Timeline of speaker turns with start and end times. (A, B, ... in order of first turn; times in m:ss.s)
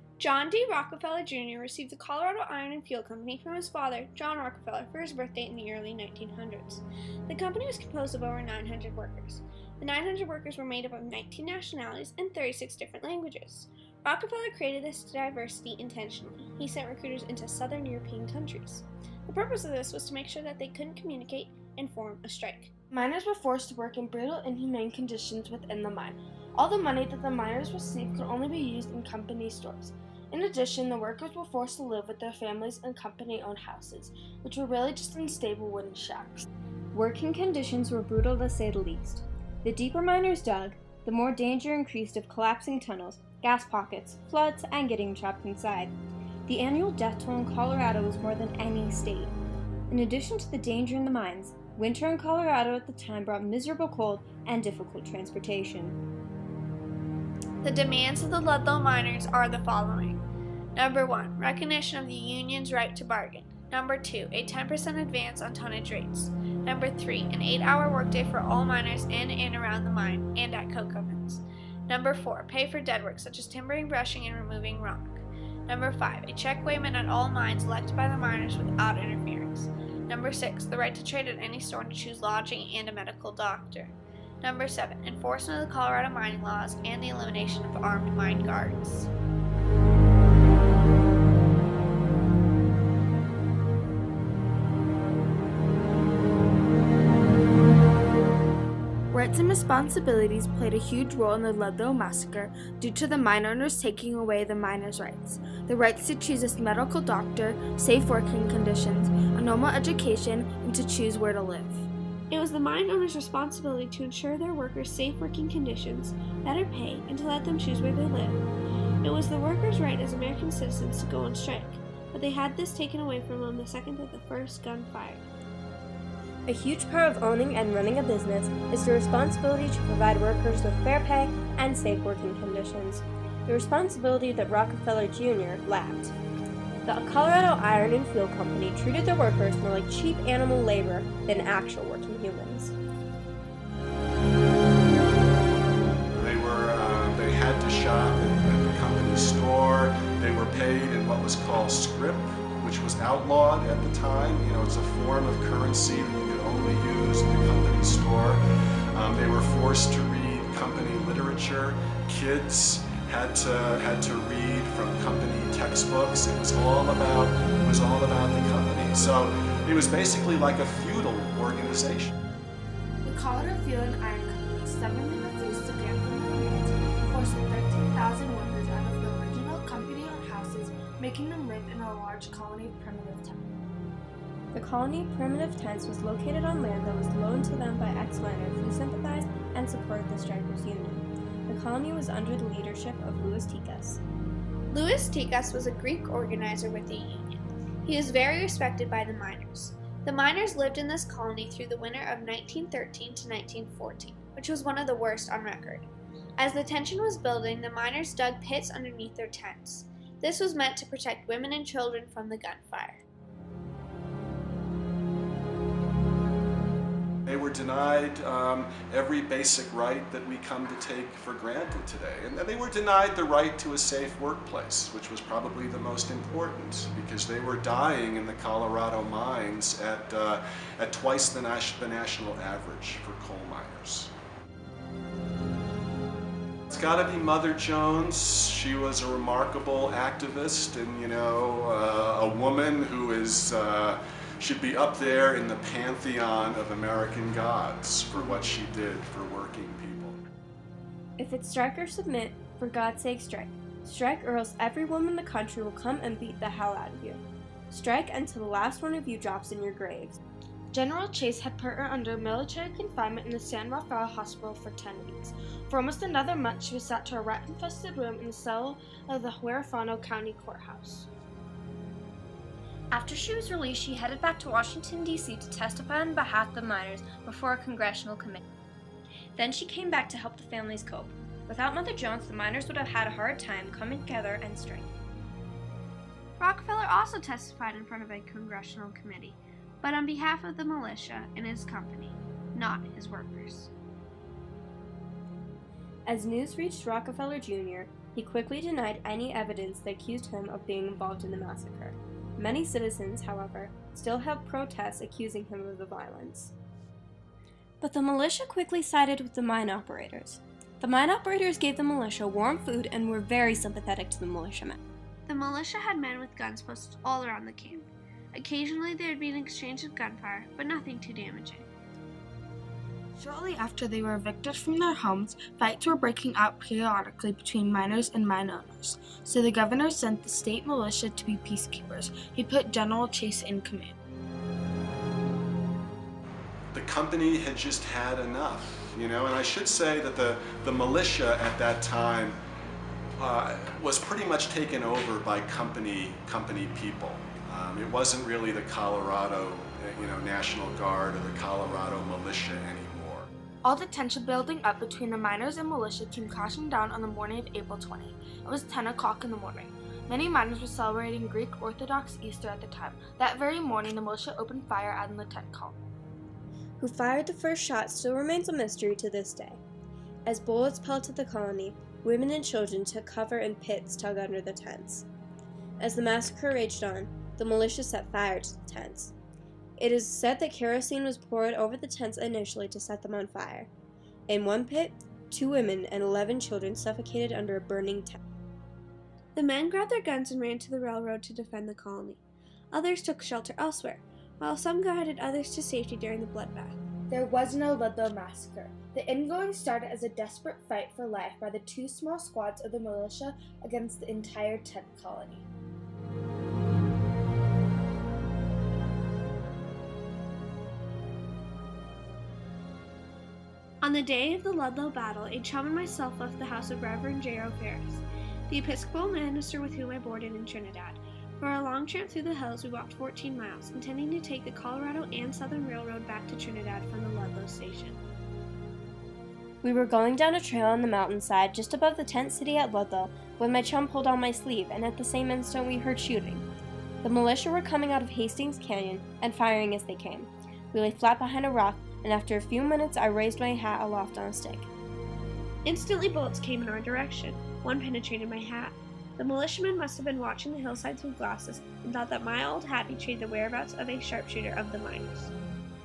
0:00.2-0:22.7 A
0:22.9-0:36.5 B
0:36.9-0:45.9 C
0:46.5-0:49.3 C
0:49.9-0:56.0 C
0:57.6-1:00.2 A
1:00.8-1:29.1 A
1:39.1-1:51.9 B
1:52.3-1:58.4 A
1:59.0-2:05.2 A
2:06.5-2:16.2 C
2:16.9-2:22.8 C
2:26.2-2:38.4 D
2:38.9-2:52.1 D
2:53.0-3:03.5 B
3:04.5-3:14.0 C
3:14.7-3:33.0 A
3:37.3-3:54.1 D
3:56.7-4:10.2 D
4:11.2-4:20.2 C
4:20.7-4:31.1 B
4:32.9-4:38.4 C
4:39.4-4:44.9 C
4:46.4-4:53.7 A
4:56.1-5:06.5 C
5:07.8-5:14.8 C
5:15.3-5:21.7 A
5:23.2-5:34.0 B
5:36.7-5:42.4 D
5:43.2-5:53.3 D
5:53.6-6:05.8 B
6:06.8-6:09.6 C
6:10.3-6:15.1 C
6:15.8-6:19.2 C
6:19.8-6:23.7 C
6:24.3-6:28.2 C
6:29.4-6:32.2 A
6:32.7-6:36.8 A
6:37.1-6:45.5 B
6:53.8-7:08.0 A
7:09.6-7:16.4 C
7:17.0-7:24.7 C
7:25.6-7:35.3 A